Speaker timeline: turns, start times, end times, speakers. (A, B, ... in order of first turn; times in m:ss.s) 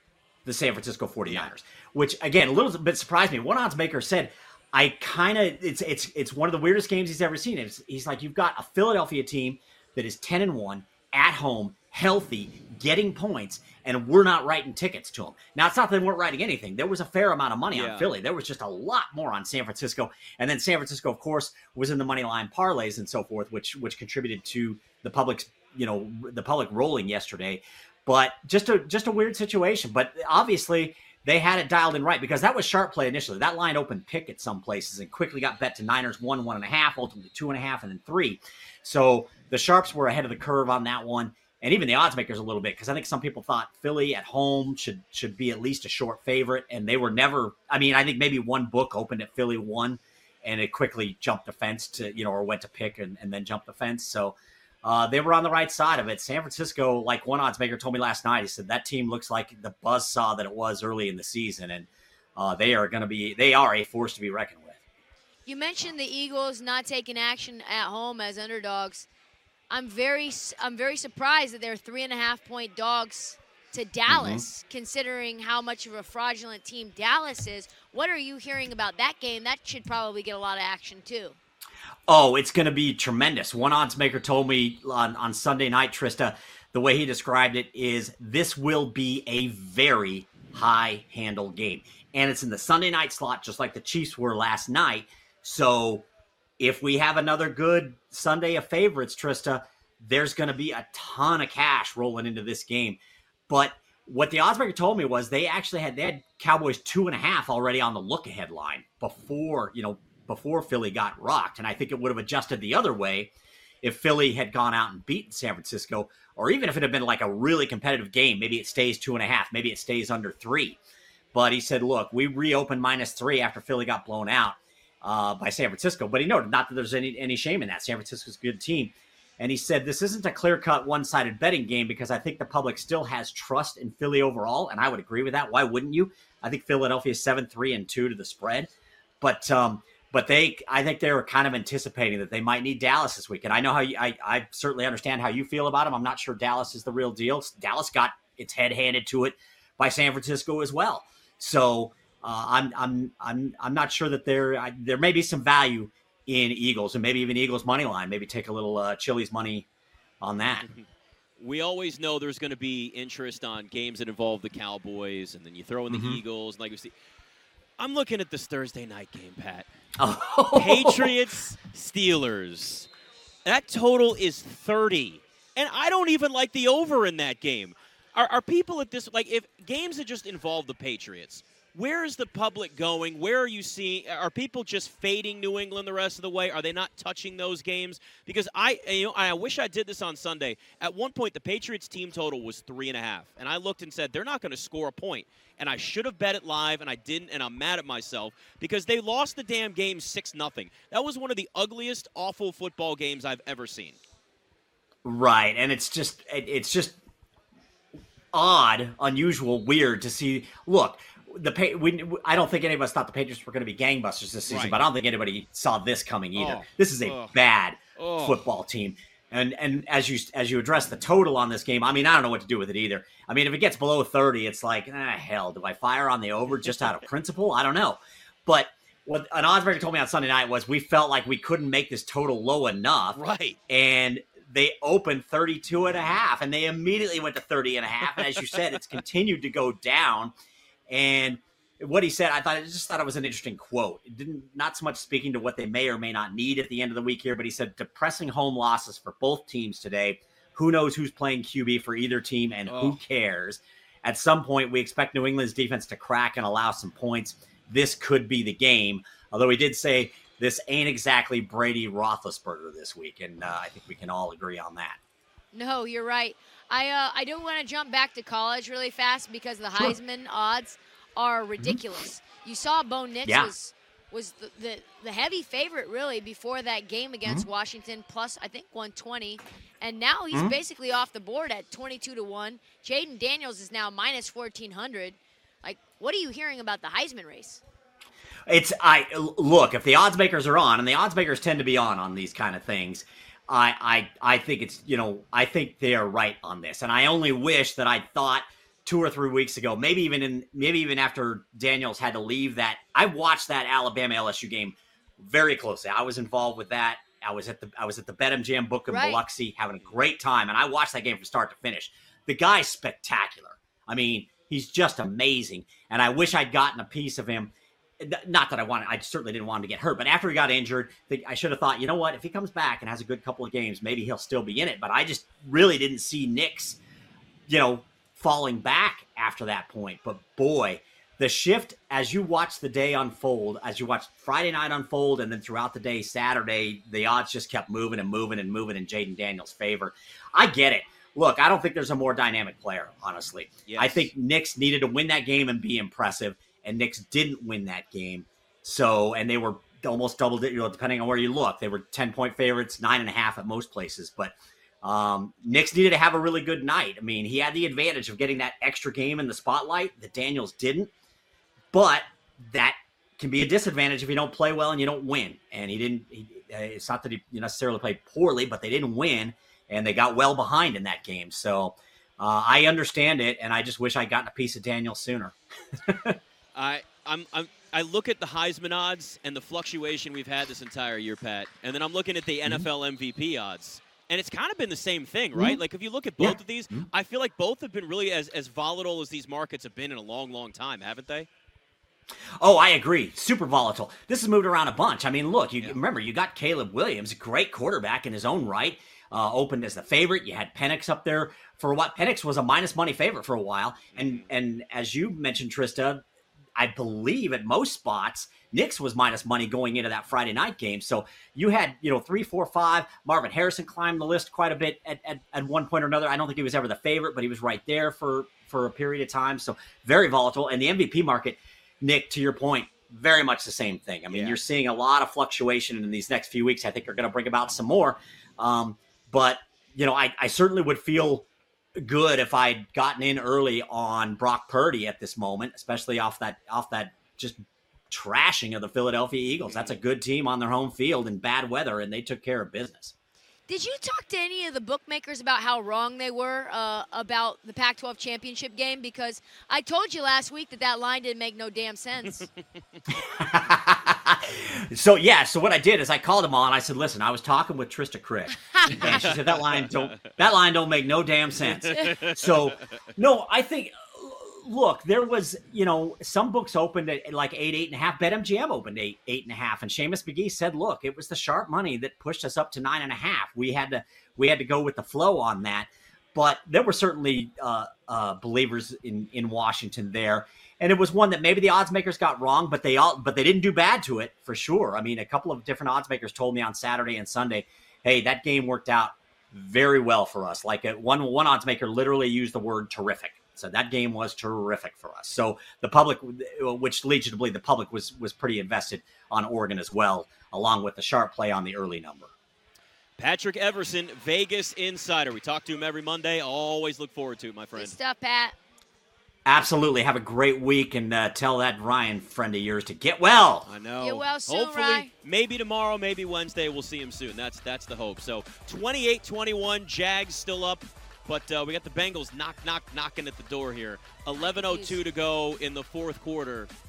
0:00.4-1:04.8 A
0:17.7-0:18.1 B
1:05.4-1:09.1 C
1:09.7-1:21.4 C
1:14.1-1:14.4 A
1:22.1-1:36.1 A
1:36.6-2:00.8 A
2:01.3-2:18.7 A
2:19.2-2:39.7 A
2:40.2-2:40.6 A
2:40.4-2:40.8 B
2:41.4-2:46.9 B
2:45.9-2:46.2 A
2:47.8-2:49.7 B
2:50.0-2:51.1 A
2:50.5-2:52.9 B
2:53.4-3:24.0 B
3:25.0-3:27.0 A
3:28.3-4:00.3 A
3:34.5-3:34.8 B
3:36.4-3:37.4 B
3:38.0-3:38.4 B
3:53.1-3:53.6 B
3:58.2-3:58.4 B
4:00.9-4:25.0 A
4:12.7-4:13.0 B
4:25.5-4:47.6 C
4:31.6-4:31.8 A
4:33.2-4:33.5 A
4:48.4-5:26.8 A
5:08.9-5:09.2 C
5:27.5-6:00.9 A
5:43.6-5:44.1 B
6:01.7-6:16.2 A
6:16.5-6:31.3 B
6:25.3-6:25.6 A
6:26.2-6:26.9 A
6:32.4-6:46.0 A
6:43.9-6:44.3 B
6:46.6-7:11.2 A
7:04.1-7:04.4 B
7:11.8-7:22.9 A
7:19.5-7:19.8 B
7:23.5-7:32.3 C
7:32.9-8:22.1 A
7:38.7-7:39.8 B
7:41.4-7:42.2 B
8:23.0-8:27.7 B
8:27.5-8:28.4 C
8:29.2-8:33.5 A
8:33.4-8:46.5 B
8:33.8-8:34.9 C
8:44.2-8:44.8 C